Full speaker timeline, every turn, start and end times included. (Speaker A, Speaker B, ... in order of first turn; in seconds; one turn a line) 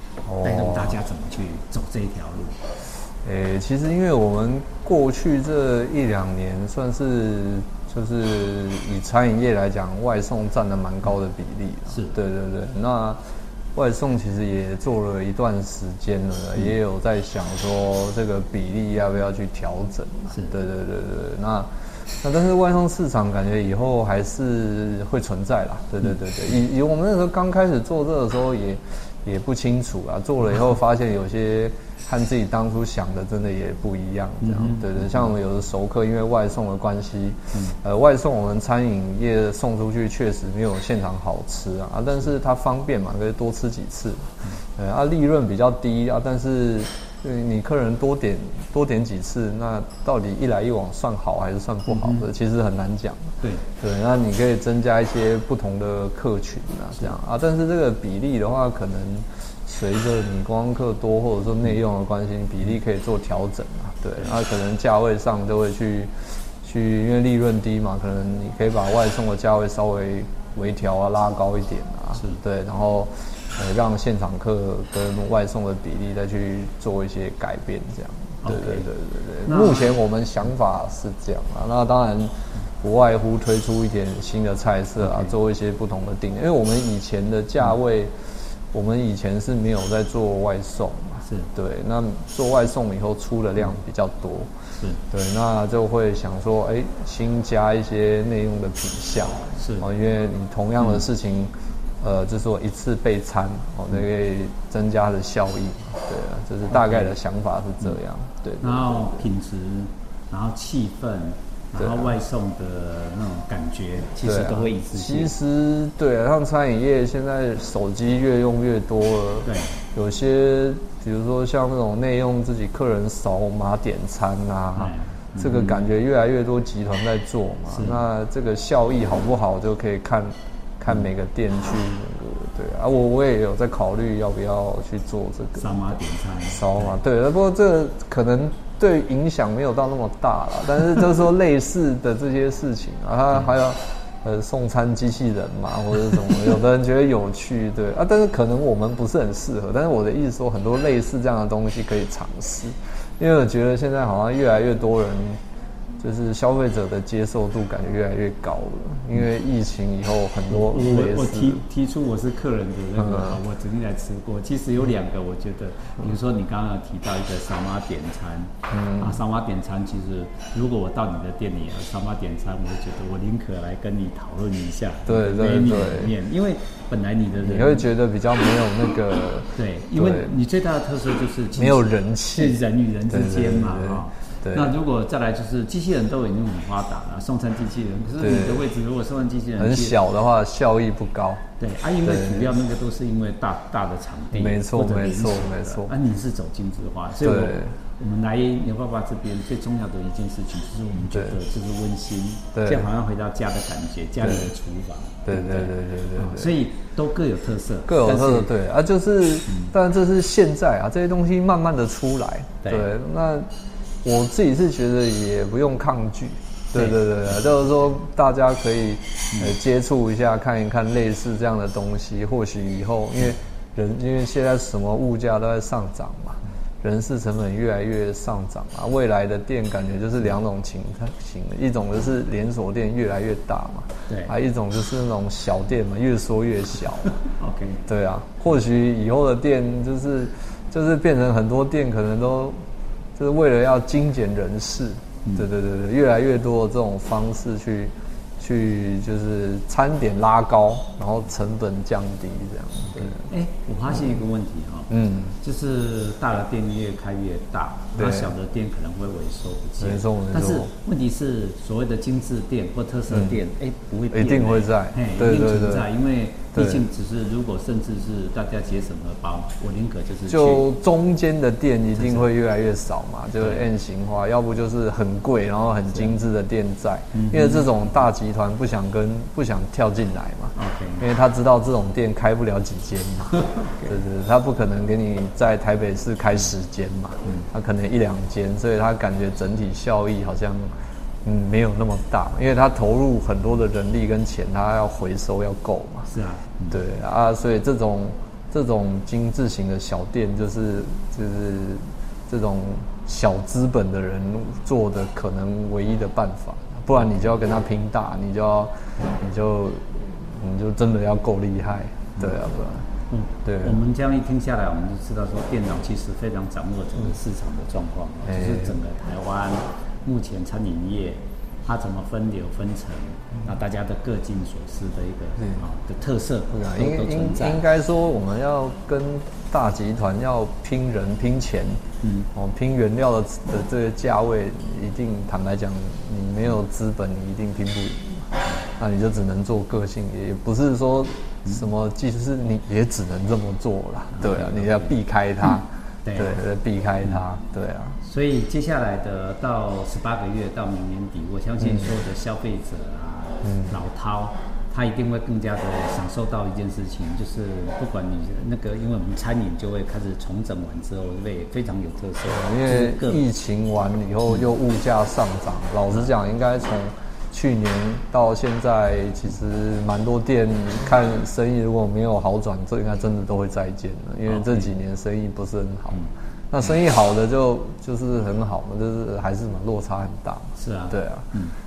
Speaker A: 0.2-1.0
Speaker B: 0.4-2.6
Speaker A: 3.2-13.2
Speaker A: 13.7-21.7
Speaker A: 22.2-66.1
Speaker B: 34.4-35.1
Speaker B: 51.9-52.2
Speaker A: 66.6-88.1
Speaker B: 78.4-78.9
Speaker B: 79.5-79.9
Speaker B: 85.0-85.3
Speaker A: 88.7-94.5
Speaker A: 95.1-109.2
Speaker B: 99.6-99.9
Speaker B: 106.7-107.1
Speaker B: 108.6-115.3
Speaker A: 111.8-112.1
Speaker A: 114.2-135.7
Speaker B: 119.4-119.8
Speaker B: 124.8-125.8
Speaker B: 127.7-128.0
Speaker B: 135.6-137.0
Speaker A: 136.5-155.4
Speaker A: 156.0-161.6
Speaker B: 160.5-177.8
Speaker A: 163.0-163.4
Speaker A: 168.7-169.2
Speaker A: 175.1-176.1
Speaker A: 177.4-180.3
Speaker B: 179.6-189.9
Speaker A: 181.6-184.7
Speaker A: 188.2-188.7
Speaker A: 189.6-191.4
Speaker B: 191.6-208.5
Speaker A: 192.0-192.5
Speaker A: 194.3-195.9
Speaker A: 197.2-197.7
Speaker A: 202.5-202.8
Speaker A: 205.2-206.6
Speaker A: 207.8-213.5
Speaker A: 214.0-237.2
Speaker B: 237.4-237.8
Speaker A: 237.9-242.6
Speaker A: 243.2-253.2
Speaker B: 252.9-270.6
Speaker A: 254.9-255.3
Speaker A: 258.0-258.3
Speaker A: 259.8-260.7
Speaker A: 263.1-263.4
Speaker A: 264.1-265.9
Speaker A: 266.5-266.8
Speaker A: 270.3-290.7
Speaker B: 272.0-272.2
Speaker B: 273.4-273.6
Speaker B: 277.1-277.7
Speaker B: 280.5-281.0
Speaker B: 283.7-284.0
Speaker A: 291.2-296.1
Speaker B: 296.1-296.8
Speaker A: 296.7-312.9
Speaker B: 313.1-327.6
Speaker A: 313.4-313.8
Speaker A: 318.2-318.8
Speaker A: 326.5-331.8
Speaker B: 332.0-332.3
Speaker A: 332.3-348.0
Speaker B: 344.1-344.9
Speaker B: 346.0-346.3
Speaker B: 348.0-363.2
Speaker A: 353.4-353.8
Speaker A: 362.3-381.3
Speaker B: 374.3-374.7
Speaker B: 380.6-381.5